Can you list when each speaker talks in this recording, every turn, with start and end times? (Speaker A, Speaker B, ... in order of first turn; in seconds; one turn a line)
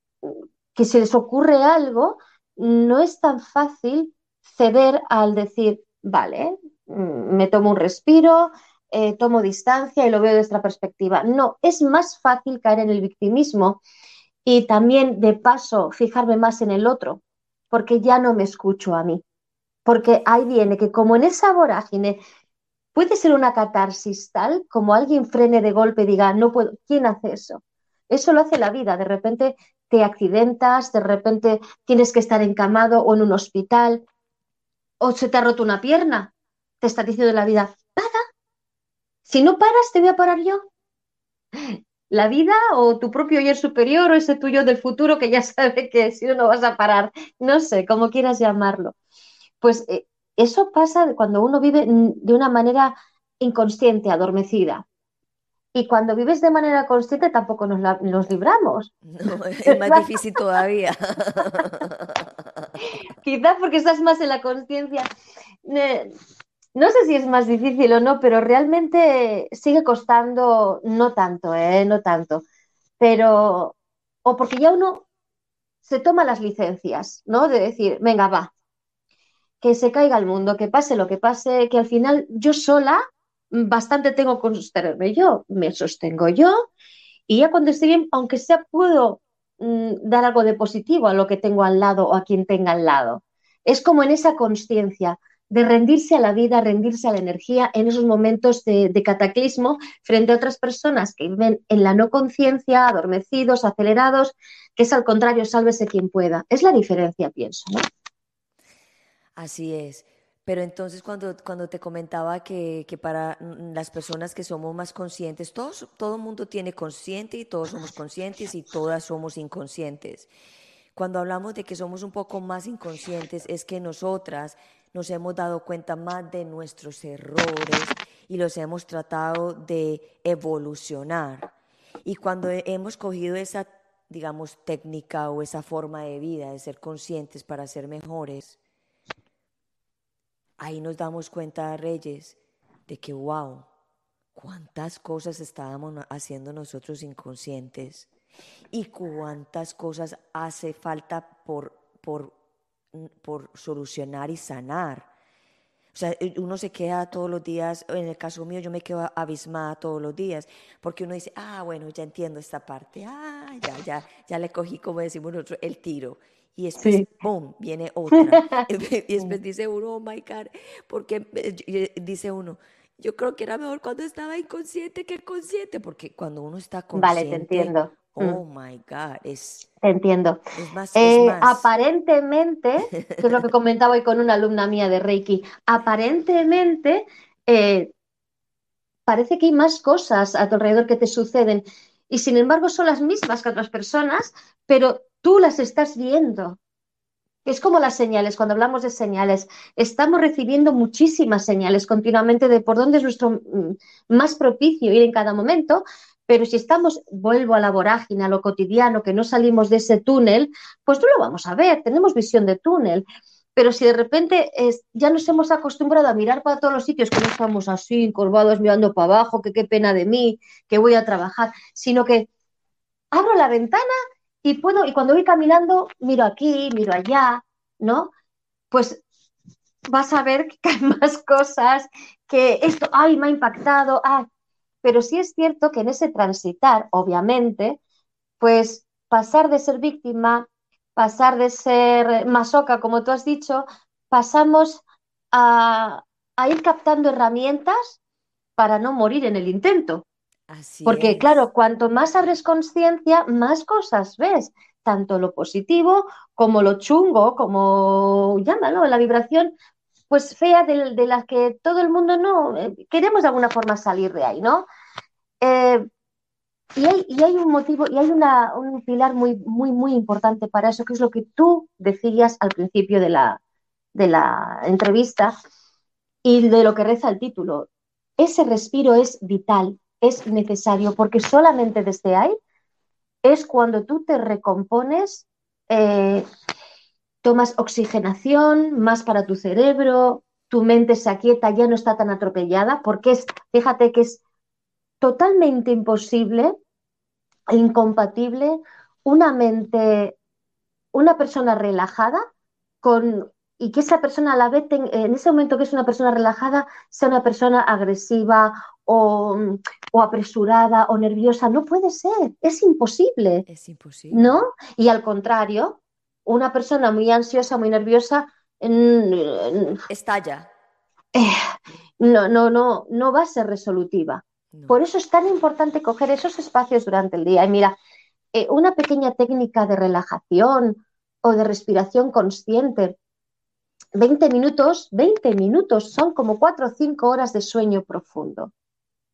Speaker A: 0.2-13.8
Speaker A: 14.4-19.2
Speaker A: 19.9-22.2
Speaker A: 22.9-34.0
Speaker A: 35.0-38.2
Speaker A: 39.2-40.6
Speaker A: 41.5-48.9
Speaker A: 49.6-54.8
Speaker A: 55.7-58.9
Speaker B: 59.0-62.7
Speaker A: 59.7-60.0
Speaker A: 63.2-65.1
Speaker A: 65.6-66.1
Speaker A: 66.7-72.4
Speaker A: 73.0-75.0
Speaker A: 75.8-78.5
Speaker A: 79.6-83.0
Speaker A: 83.5-86.5
Speaker A: 87.3-107.8
Speaker B: 109.4-120.3
Speaker B: 120.9-131.5
Speaker B: 132.0-138.6
Speaker B: 140.6-143.7
Speaker B: 144.3-148.1
Speaker B: 148.7-152.3
Speaker B: 152.9-155.1
Speaker B: 155.9-179.7
Speaker A: 166.8-167.1
Speaker A: 168.1-168.6
Speaker A: 176.9-178.4
Speaker A: 179.8-180.4
Speaker B: 180.6-181.7
Speaker A: 180.9-187.9
Speaker B: 183.0-183.3
Speaker A: 189.1-196.6
Speaker A: 197.4-213.0
Speaker A: 213.6-222.3
Speaker A: 223.1-223.9
Speaker A: 224.4-228.1
Speaker A: 228.7-229.0
Speaker A: 229.9-234.3
Speaker A: 234.8-237.8
Speaker A: 238.4-248.0
Speaker A: 248.6-250.0
Speaker B: 250.5-251.4
Speaker A: 250.8-259.5
Speaker A: 260.1-264.6
Speaker A: 265.4-265.8
Speaker A: 266.8-273.4
Speaker A: 273.9-275.3
Speaker A: 276.2-277.7
Speaker A: 278.2-282.4
Speaker A: 283.2-286.2
Speaker A: 287.2-294.2
Speaker A: 295.0-296.5
Speaker A: 297.5-300.1
Speaker A: 300.9-302.2
Speaker A: 302.8-313.4
Speaker B: 313.5-314.4
Speaker A: 314.1-319.8
Speaker B: 319.9-320.5
Speaker A: 321.1-321.4
Speaker A: 322.0-327.7
Speaker B: 324.5-324.8
Speaker A: 328.3-333.0
Speaker A: 333.9-338.5